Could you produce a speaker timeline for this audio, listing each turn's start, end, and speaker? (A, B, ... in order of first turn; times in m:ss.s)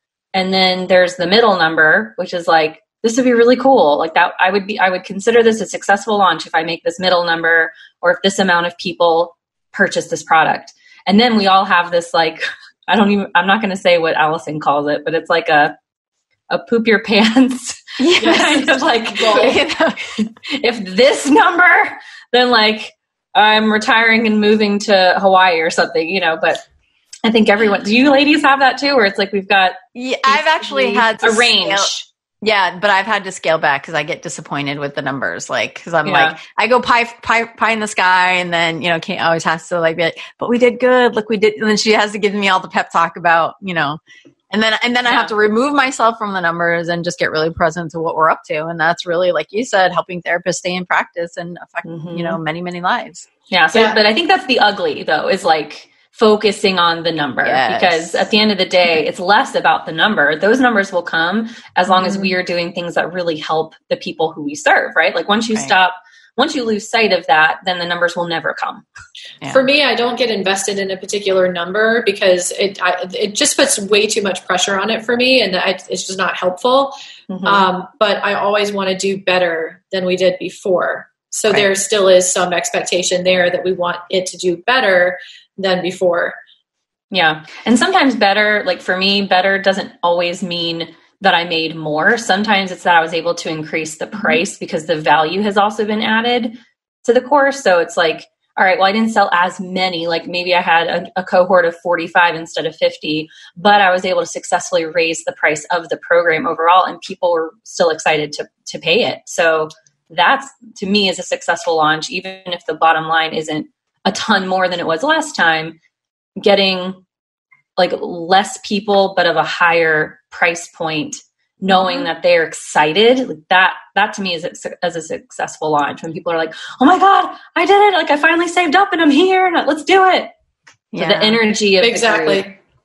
0:00.3-0:15.7 A
0:16.5-0:19.6 A
0:18.0-0:20.0 B
0:18.2-0:19.6 C
0:20.2-0:26.6 A
0:27.2-0:32.1 A
0:29.9-0:44.0 B
0:36.0-0:36.4 A
0:44.5-0:53.3 B
0:45.1-0:45.3 A
0:51.8-0:52.4 A
0:53.5-1:08.8 A
0:57.4-0:58.2 B
1:02.0-1:02.3 C
1:09.5-1:16.9 C
1:17.3-1:17.6 A
1:17.4-1:26.4 C
1:27.1-1:55.8 A
1:56.4-1:57.0 A
1:57.8-2:10.3 A
2:10.9-2:11.4 B
2:11.0-2:12.5 A
2:11.8-2:12.6 C